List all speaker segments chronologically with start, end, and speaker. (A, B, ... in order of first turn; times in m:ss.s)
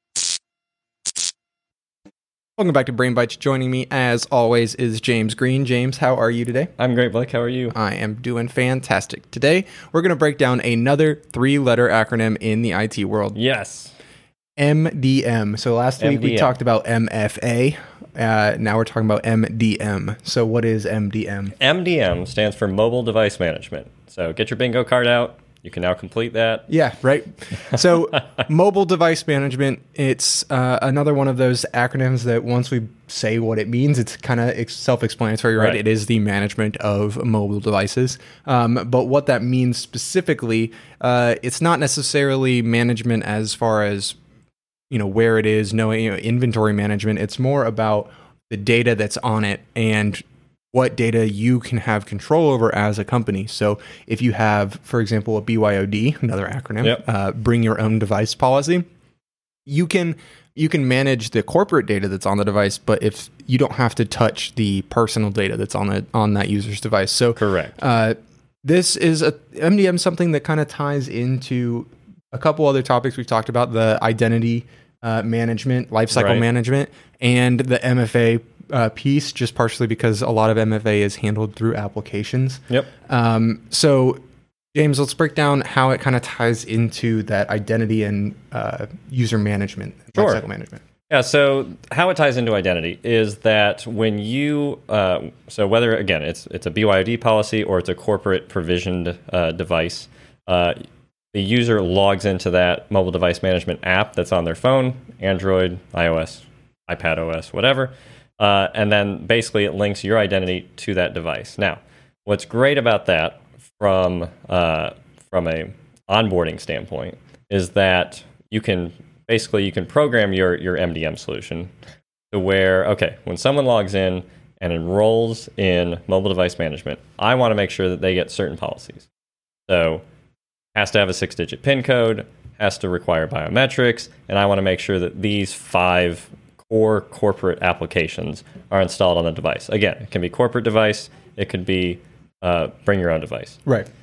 0:02.6-0:06.7 A
0:06.8-0:07.8 B
0:07.7-0:13.4 A
0:13.3-0:13.9 B
0:14.6-0:21.6 A
0:16.0-0:16.6 B
0:21.6-0:26.7 B
0:26.7-0:44.2 A
0:44.9-0:58.8 A
0:59.7-1:24.2 A
1:07.4-1:07.8 B
1:16.1-1:16.4 B
1:24.7-1:30.8 A
1:30.2-1:30.4 B
1:31.1-1:40.8 B
1:41.3-2:01.7 B
2:02.3-2:09.1 B
2:09.7-2:10.0 B
2:10.8-2:23.6 B